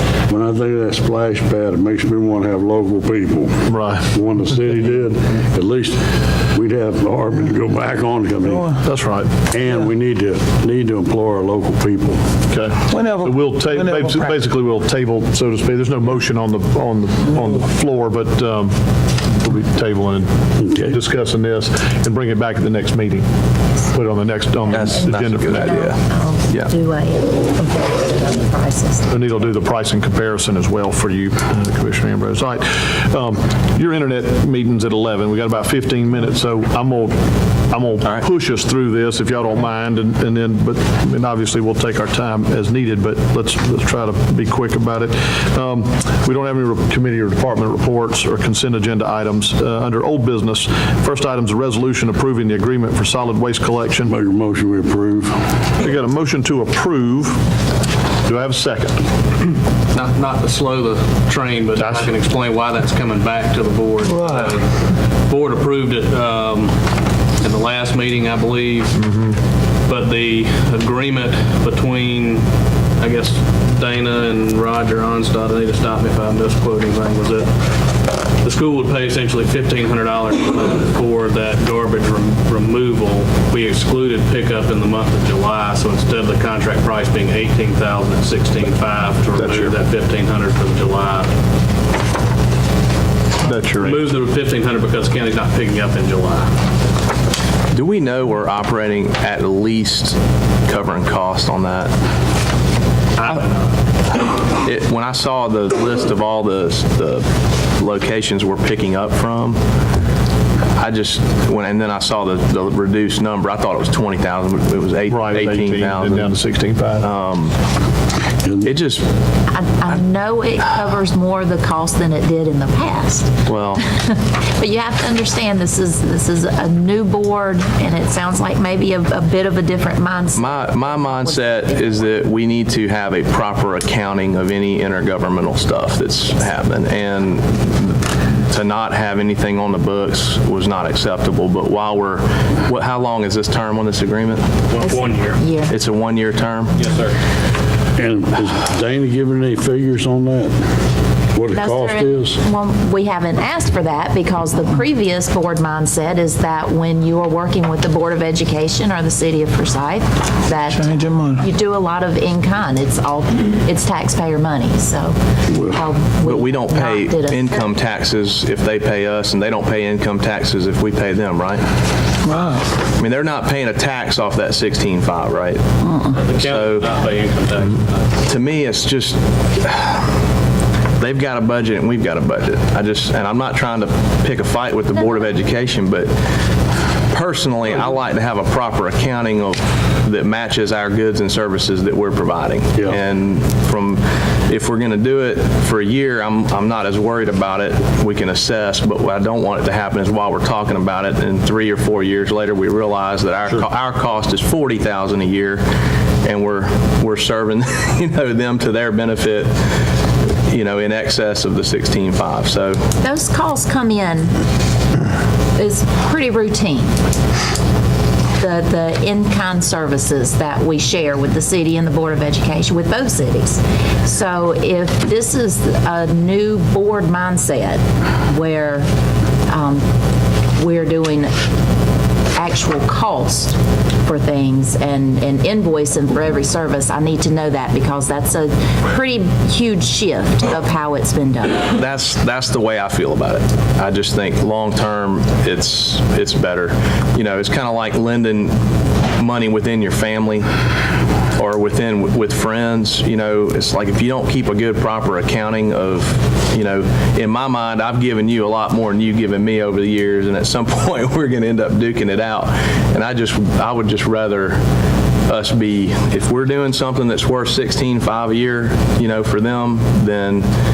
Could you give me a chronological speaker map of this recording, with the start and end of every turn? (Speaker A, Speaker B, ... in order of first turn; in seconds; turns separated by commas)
Speaker A: 0.3-8.7, Speaker B: 3.7-4.1, Speaker C: 8.4-8.8, Speaker B: 8.8-9.4, Speaker A: 9.4-12.3, Speaker B: 12.5-18.8, Speaker C: 12.9-14.3, Speaker B: 19.3-23.3, Speaker A: 20.6-21.0, Speaker B: 23.9-25.9, Speaker D: 24.7-26.0, Speaker E: 24.7-29.1, Speaker B: 29.1-54.2, Speaker A: 54.0-55.7, Speaker B: 55.8-57.4, Speaker B: 58.2-59.1, Speaker F: 59.9-66.8, Speaker B: 61.8-62.1, Speaker C: 64.0-64.6, Speaker F: 67.4-69.0, Speaker B: 69.0-69.4, Speaker F: 69.9-72.5, Speaker F: 73.0-77.5, Speaker F: 78.4-91.3, Speaker B: 89.3-89.8, Speaker B: 93.4-94.1, Speaker F: 93.8-96.6, Speaker D: 97.7-101.9, Speaker F: 103.2-103.7, Speaker D: 104.5-107.3, Speaker D: 107.8-109.6, Speaker D: 110.8-116.3, Speaker B: 115.1-117.1, Speaker D: 117.0-117.6, Speaker A: 118.4-118.7, Speaker D: 118.7-119.1, Speaker E: 119.5-132.1, Speaker D: 123.5-123.8, Speaker D: 130.4-144.5, Speaker F: 144.7-145.4, Speaker E: 144.8-145.8, Speaker D: 145.7-146.8, Speaker F: 146.8-147.2, Speaker A: 148.0-150.6, Speaker A: 151.3-152.4, Speaker E: 151.5-167.7, Speaker C: 160.7-161.5, Speaker D: 166.2-171.7, Speaker C: 172.2-172.7, Speaker D: 173.0-175.6, Speaker E: 175.8-176.2, Speaker F: 176.1-178.1, Speaker D: 176.4-176.9, Speaker D: 178.2-180.1, Speaker D: 181.0-186.1, Speaker D: 187.1-205.7, Speaker D: 206.2-209.6, Speaker D: 210.5-212.8, Speaker E: 213.0-214.3, Speaker E: 215.6-216.9, Speaker E: 218.4-228.9, Speaker E: 229.5-229.8, Speaker E: 230.6-231.3, Speaker E: 232.3-241.7, Speaker D: 241.7-248.6, Speaker D: 249.2-250.5, Speaker D: 251.4-264.6, Speaker D: 265.3-270.5